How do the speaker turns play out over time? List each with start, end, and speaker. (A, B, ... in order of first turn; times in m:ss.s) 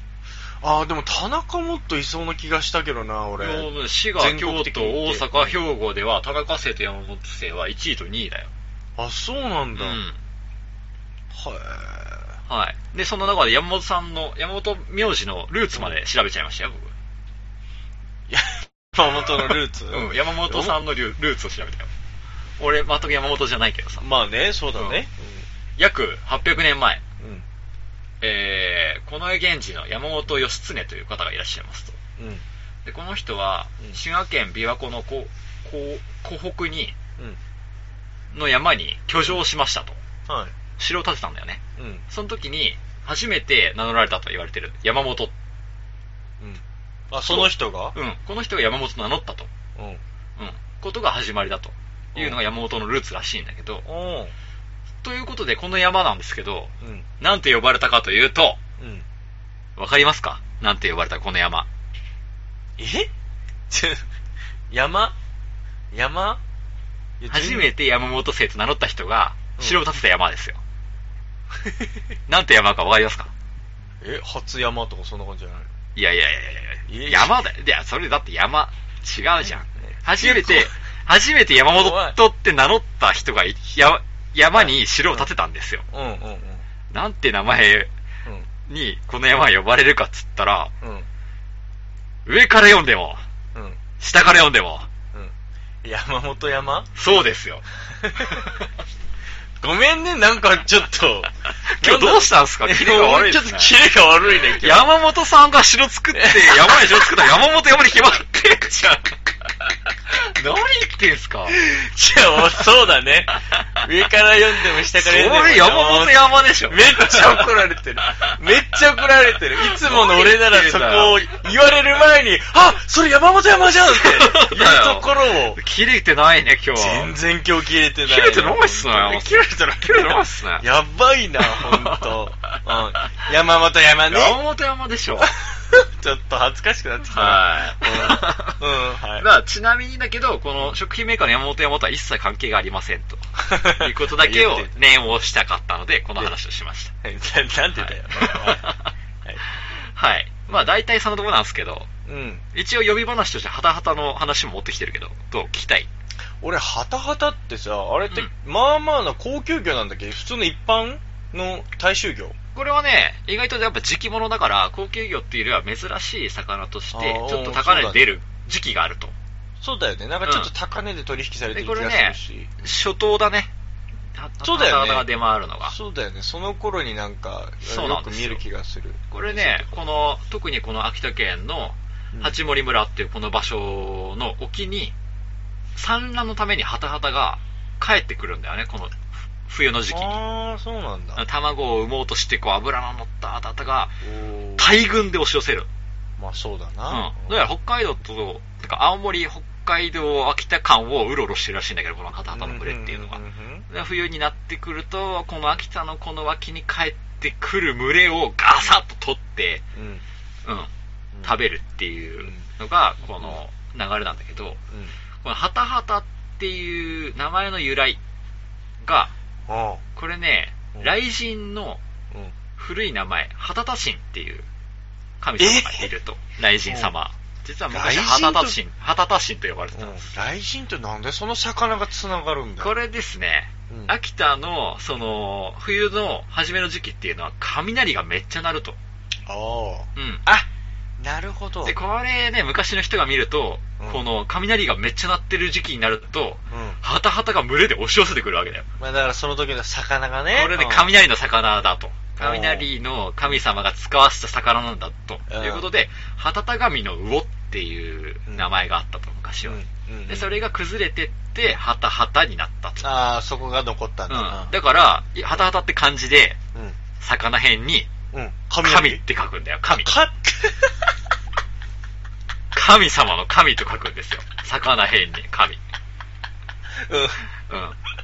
0:00.6-0:05.6 A
0:03.4-0:08.5 B
0:09.0-0:10.0 A
0:09.8-0:10.2 B
0:11.3-0:12.4 A
0:12.5-0:16.9 B
0:18.3-0:20.8 A
0:19.9-0:21.9 B
0:22.6-0:24.1 B
0:24.0-0:25.4 A
0:24.8-0:25.0 B
0:25.8-0:27.0 B
0:27.2-0:27.4 A
0:28.2-0:32.0 B
0:32.2-0:32.4 A
0:32.8-0:37.0 B
0:38.3-0:40.0 B
0:40.3-0:40.6 A
0:40.8-0:45.3 B
0:41.8-0:42.0 A
0:46.4-0:48.0 A
0:47.2-0:49.5 B
0:49.8-0:50.0 A
0:50.4-0:53.8 B
0:52.2-0:52.4 A
0:53.8-0:54.3 A
0:55.0-0:58.6 B
0:56.8-0:57.1 A
0:58.8-0:59.0 A
0:59.8-1:01.7 B
1:02.8-1:03.1 A
1:03.7-1:04.1 A
1:04.7-1:05.2 A
1:05.9-1:06.4 A
1:07.2-1:07.7 A
1:07.3-1:10.6 B
1:11.6-1:12.0 A
1:12.3-1:13.3 B
1:14.0-1:15.7 A
1:16.0-1:25.8 B
1:16.9-1:17.4 A
1:19.4-1:20.7 A
1:21.7-1:22.2 A
1:24.6-1:25.3 A
1:25.9-1:26.6 A
1:26.9-1:27.9 B
1:28.7-1:30.7 B
1:30.8-1:31.1 A
1:32.3-1:33.2 B
1:33.5-1:33.8 A
1:34.0-1:34.9 B
1:35.1-1:37.0 A
1:37.0-1:37.6 B
1:37.9-1:38.5 A
1:39.6-1:44.9 A
1:41.7-1:43.8 B
1:44.5-1:49.2 B
1:46.1-1:47.1 A
1:50.1-1:51.6 B
1:51.5-2:05.6 A
1:54.9-1:57.5 B
1:59.6-2:01.3 B
2:03.9-2:07.1 B
2:06.8-2:14.4 A
2:08.1-2:10.7 B
2:11.5-2:12.7 B
2:14.1-2:15.3 B
2:15.2-2:19.3 A
2:17.1-2:18.6 B
2:19.2-2:26.9 B
2:23.4-2:24.8 A
2:27.0-2:28.7 A
2:27.8-2:28.9 B
2:29.8-2:31.9 B
2:32.1-2:32.4 A
2:32.5-2:35.9 B
2:36.4-2:42.4 A
2:42.6-2:49.2 B
2:46.9-2:48.1 A
2:49.6-2:52.6 A
2:50.2-2:50.5 B
2:51.5-2:53.5 B
2:54.2-2:55.8 B
2:54.4-2:55.1 A
2:55.7-2:59.8 A
2:57.6-2:58.4 B
2:59.1-3:05.0 B
3:05.8-3:10.2 B
3:09.9-3:11.2 A
3:11.2-3:14.0 B
3:14.0-3:14.7 A
3:14.6-3:15.7 B
3:16.2-3:17.4 A
3:16.9-3:29.6 B
3:22.3-3:23.7 A
3:29.8-3:30.0 A
3:30.4-3:30.7 B
3:31.2-3:34.6 B
3:32.2-3:32.5 A
3:33.1-3:33.4 A
3:34.7-3:35.0 A
3:35.2-3:38.0 B
3:38.8-3:39.1 B
3:39.5-3:39.8 A
3:40.0-3:41.8 B
3:42.6-3:44.5 B
3:45.2-3:50.1 B
3:45.4-3:45.9 A
3:46.7-3:46.9 A
3:47.7-3:48.6 A
3:49.7-3:52.7 A
3:52.6-3:58.8 B
3:59.3-4:01.8 A
4:00.0-4:00.2 B
4:01.6-4:08.7 B
4:06.5-4:06.8 A
4:08.8-4:10.9 A
4:10.3-4:22.9 B
4:12.2-4:12.7 A
4:15.3-4:15.7 A
4:19.4-4:20.3 A
4:22.8-4:24.5 A
4:24.1-4:26.4 B
4:27.0-4:27.9 B
4:28.1-4:29.0 A
4:28.6-4:29.9 B
4:29.8-4:30.9 A
4:32.5-4:35.6 B
4:36.7-4:37.2 A
4:37.5-4:37.8 B